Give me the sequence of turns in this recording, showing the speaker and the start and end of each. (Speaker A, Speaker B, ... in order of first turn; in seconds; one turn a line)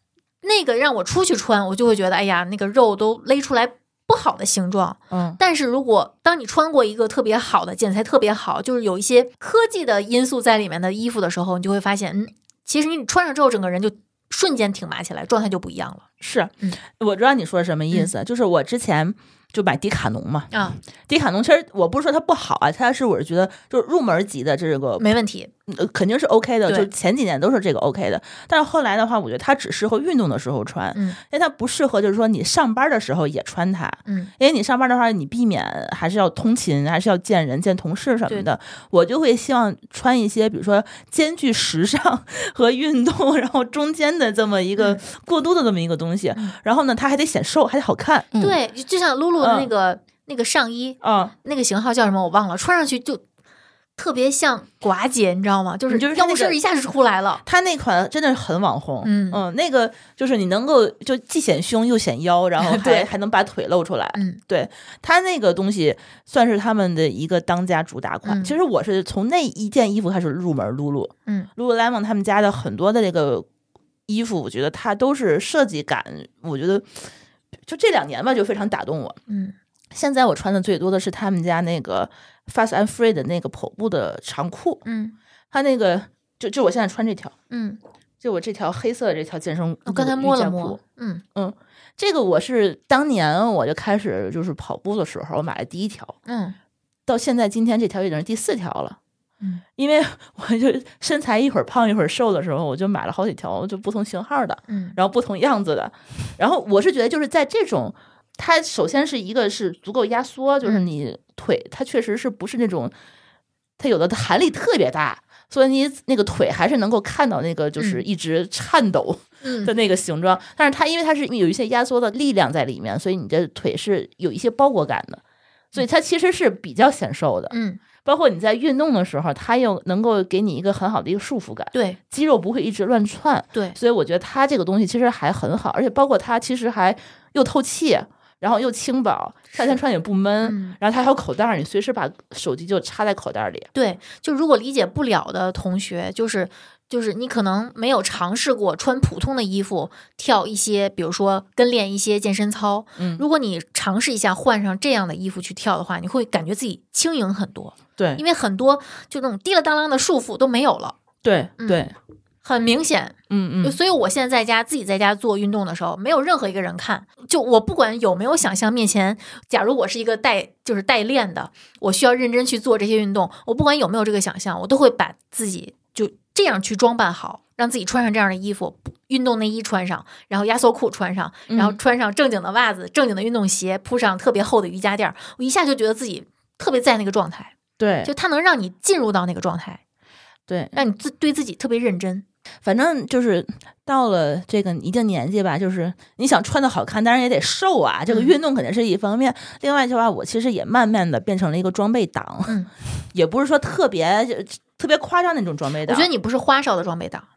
Speaker A: 0.4-16.0
Speaker B: 5.1-5.4
Speaker B: 16.2-20.5
Speaker A: 20.5-20.8
Speaker B: 21.1-25.1
Speaker A: 25.0-25.5
Speaker B: 25.7-48.3
Speaker A: 30.9-31.2
Speaker A: 34.1-34.3
Speaker A: 48.4-53.2
Speaker B: 49.4-49.7
Speaker B: 51.0-51.3
Speaker A: 54.0-57.4
Speaker B: 55.9-56.6
Speaker B: 57.5-73.5
Speaker A: 59.0-59.4
Speaker A: 62.6-63.1
Speaker A: 68.2-68.5
Speaker B: 74.1-77.1
Speaker B: 77.7-79.2
Speaker A: 79.3-79.5
Speaker B: 79.9-84.8
Speaker A: 84.9-85.2
Speaker B: 85.5-87.3
Speaker A: 87.5-87.8
Speaker B: 88.2-90.8
Speaker A: 89.9-91.2
Speaker B: 91.3-96.2
Speaker A: 96.3-96.6
Speaker B: 97.1-99.0
Speaker B: 99.8-112.9
Speaker A: 104.7-105.0
Speaker B: 113.8-125.2
Speaker A: 117.8-118.0
Speaker A: 119.4-119.7
Speaker B: 125.7-143.7
Speaker A: 127.5-127.8
Speaker A: 140.4-140.8
Speaker A: 143.8-161.0
Speaker B: 153.0-153.2
Speaker B: 158.0-158.2
Speaker B: 161.2-161.9
Speaker A: 161.6-161.9
Speaker A: 162.4-189.8
Speaker B: 163.3-163.8
Speaker B: 181.5-181.8
Speaker B: 187.8-188.1
Speaker B: 190.5-190.7
Speaker A: 190.7-192.2
Speaker B: 192.6-202.6
Speaker A: 198.1-198.3
Speaker B: 203.1-206.1
Speaker A: 205.9-207.3